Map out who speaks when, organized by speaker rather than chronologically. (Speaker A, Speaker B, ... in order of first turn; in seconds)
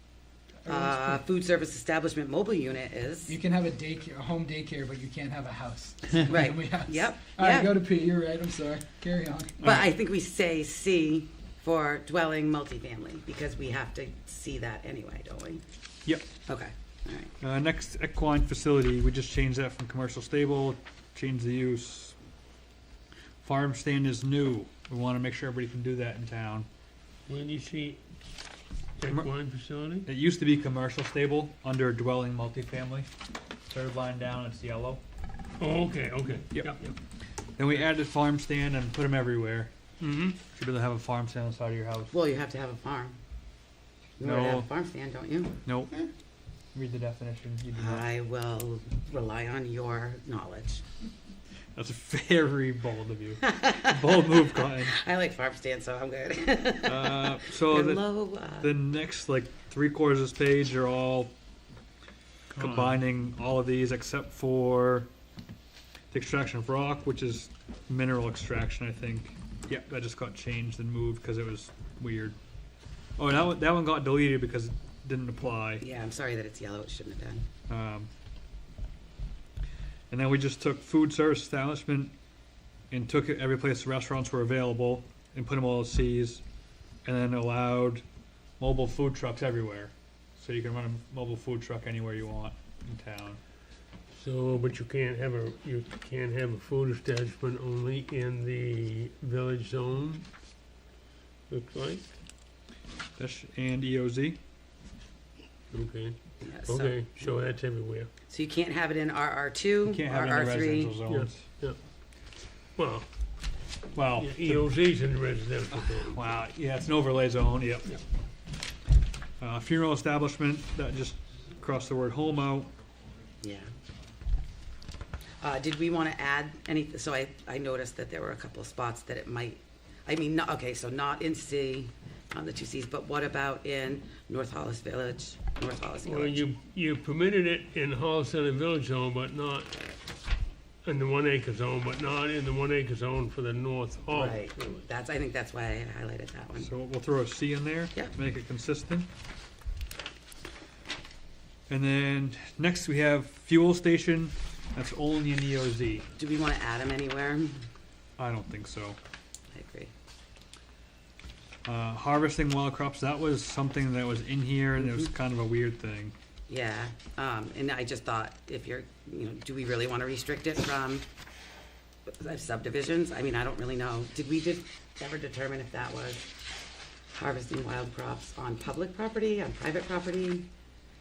Speaker A: 0.6-1.2, 3.3-9.6
Speaker B: 0.7-3.4, 6.2-7.8, 9.6-15.6, 16.4-17.3, 42.1-43.2, 44.2-46.0, 47.8-50.8, 53.5-58.7, 75.8-77.5, 106.4-107.0, 108.3-111.0, 123.4-123.7, 125.4-136.4, 144.1-146.7, 156.2-157.6, 159.5-159.9, 164.8-165.1, 166.5-171.0, 172.2-176.3, 177.2-180.5
Speaker C: 9.6-9.9, 17.4-22.1, 23.4-26.7, 30.0-33.1, 33.7-35.0, 36.5-36.8, 37.6-39.7, 40.5-42.1, 44.2-44.7, 45.6-45.9, 46.7-48.1, 51.8-54.9, 56.8-61.3, 62.5-65.1, 66.1-72.4, 73.2-75.8, 77.7-78.1, 80.1-82.1, 82.9-86.4, 87.0-88.0, 88.6-93.4, 103.2-104.4, 109.8-111.5, 113.9-114.6, 115.7-117.9, 119.4-122.7, 146.6-149.1, 151.7-156.1, 158.2-159.0, 161.6-166.1
Speaker D: 27.3-28.0, 29.0-30.1, 35.6-36.9, 40.0-40.4, 94.1-100.3, 101.5-102.1, 105.7-108.1, 111.1-111.8, 112.8-113.1, 114.2-116.2, 136.0-139.8, 140.8-144.8